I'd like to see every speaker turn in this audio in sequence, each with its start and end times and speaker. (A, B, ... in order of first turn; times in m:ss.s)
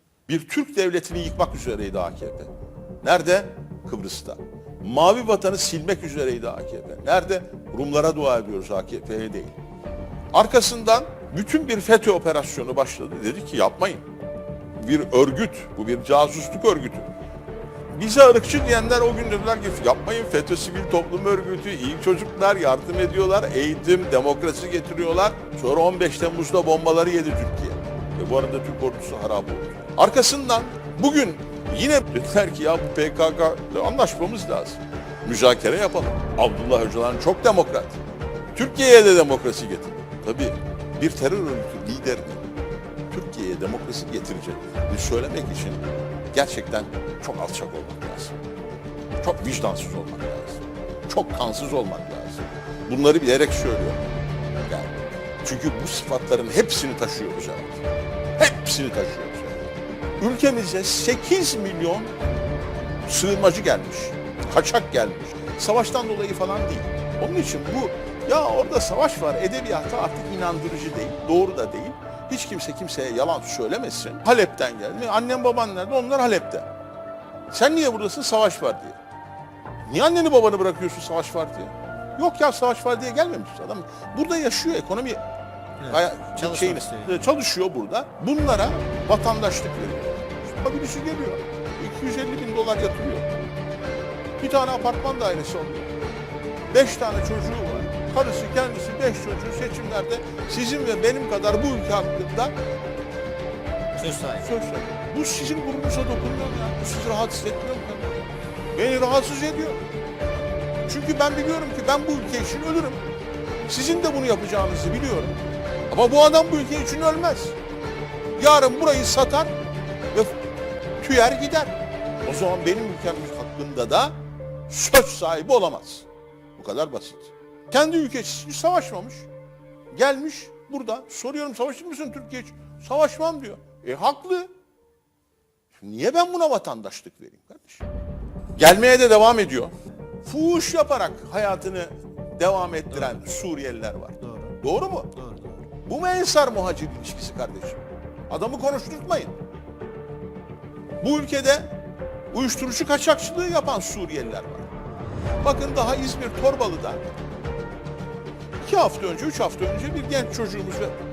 0:00.3-0:09.6 A
0:10.3-0:14.0 A
0:14.8-0:17.1 A
0:17.9-0:38.0 A
0:38.5-0:42.5 A
0:43.1-0:48.4 A
0:49.2-0:54.0 A
0:54.6-0:57.8 A
0:58.4-1:02.1 A
1:03.0-1:16.7 A
1:17.5-1:19.0 A
1:19.8-1:25.2 A
1:25.8-1:27.2 B
1:25.8-1:33.3 A
1:34.4-1:35.9 A
1:36.7-1:42.5 A
1:43.9-1:44.4 B
1:44.3-1:49.8 A
1:50.8-1:53.0 A
1:53.7-1:55.4 A
1:55.9-1:57.6 A
1:58.4-1:59.6 A
2:00.1-2:00.5 A
2:01.0-2:04.1 A
2:04.7-2:09.3 A
2:09.9-2:14.5 A
2:15.7-2:17.8 A
2:18.6-2:19.7 A
2:20.2-2:25.1 A
2:24.2-2:24.6 B
2:25.1-2:25.6 B
2:25.8-2:29.3 A
2:31.0-2:31.8 A
2:32.3-2:34.7 A
2:35.4-2:37.0 A
2:38.6-2:40.9 A